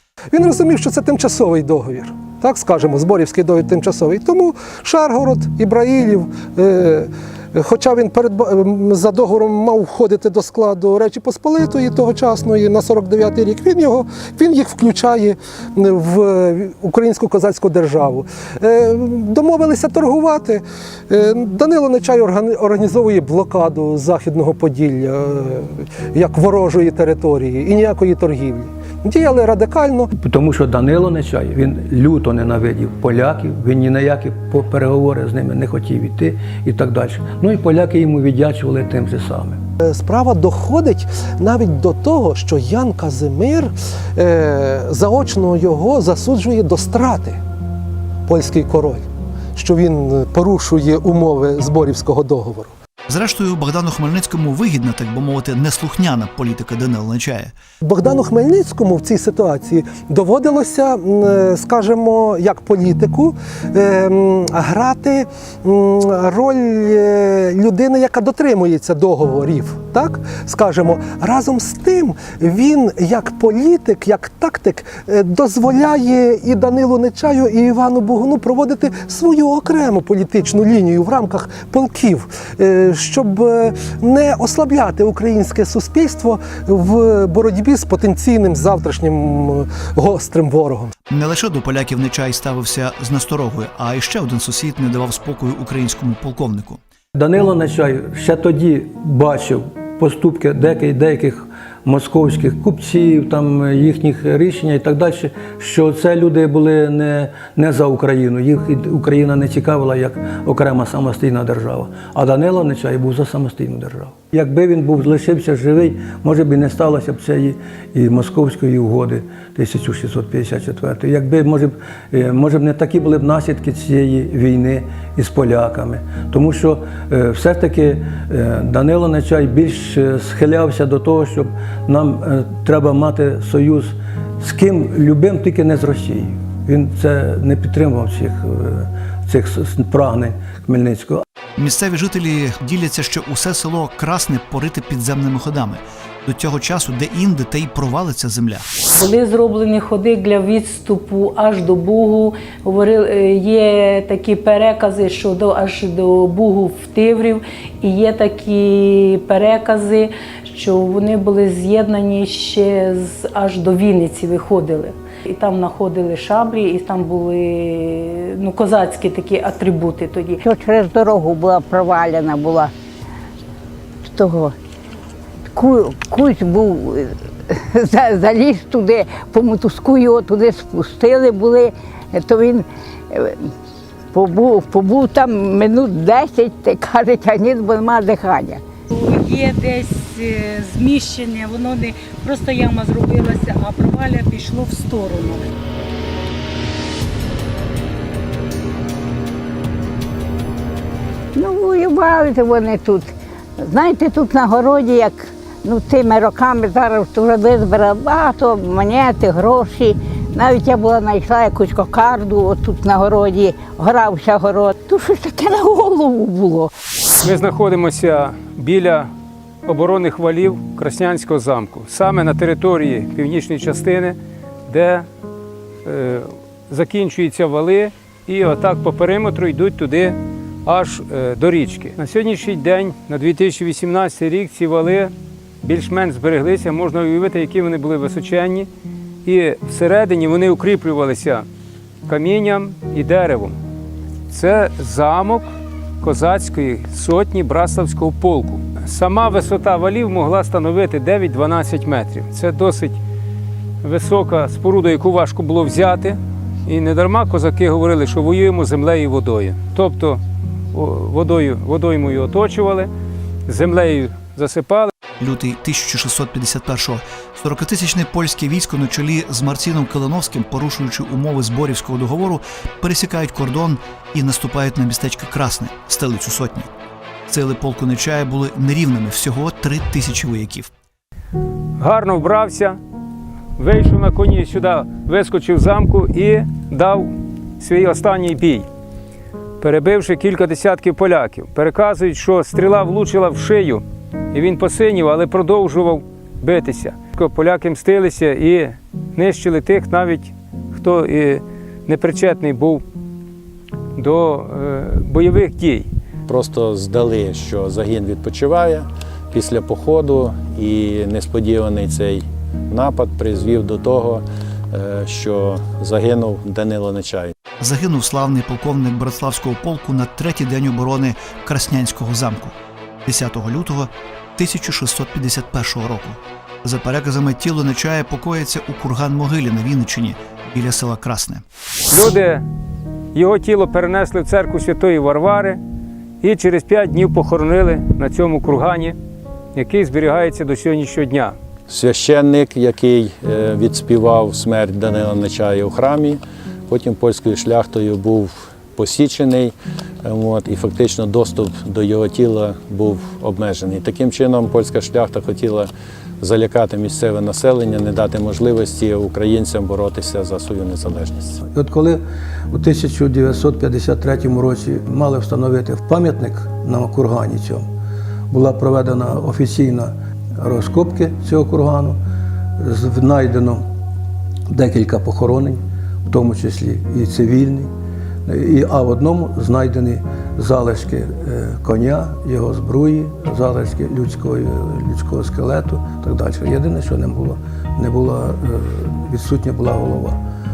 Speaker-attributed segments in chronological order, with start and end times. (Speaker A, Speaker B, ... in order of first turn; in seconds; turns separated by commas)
Speaker A: 0.3-30.1, Speaker B: 30.2-39.6, Speaker A: 39.8-47.4, Speaker A: 48.3-49.0, Speaker A: 49.6-52.7, Speaker C: 53.1-57.5, Speaker A: 57.8-90.9, Speaker C: 91.1-96.8, Speaker B: 97.2-141.2, Speaker C: 141.6-148.7, Speaker D: 148.9-170.4, Speaker E: 170.4-172.7, Speaker E: 174.1-174.5, Speaker E: 175.5-183.5, Speaker E: 184.1-188.6, Speaker F: 188.9-195.5, Speaker E: 201.3-216.7, Speaker G: 217.2-219.1, Speaker G: 219.7-224.2, Speaker G: 224.7-225.1, Speaker G: 225.8-238.7, Speaker G: 239.2-241.5, Speaker G: 242.1-243.6, Speaker G: 244.3-253.0, Speaker G: 253.8-260.2, Speaker G: 260.7-262.9, Speaker G: 263.5-264.9, Speaker C: 265.2-276.7, Speaker C: 277.3-280.7, Speaker G: 281.8-282.8, Speaker G: 283.6-288.7, Speaker G: 289.6-302.8, Speaker G: 304.0-305.9, Speaker H: 306.3-317.3, Speaker C: 317.6-331.4, Speaker G: 331.9-332.4, Speaker G: 333.1-335.6, Speaker G: 336.2-339.0, Speaker G: 339.5-341.4, Speaker H: 341.7-355.7, Speaker H: 356.2-361.4, Speaker B: 361.5-362.0, Speaker B: 362.5-367.7, Speaker B: 368.3-372.0, Speaker B: 372.6-373.6, Speaker B: 374.5-377.7, Speaker B: 378.3-390.2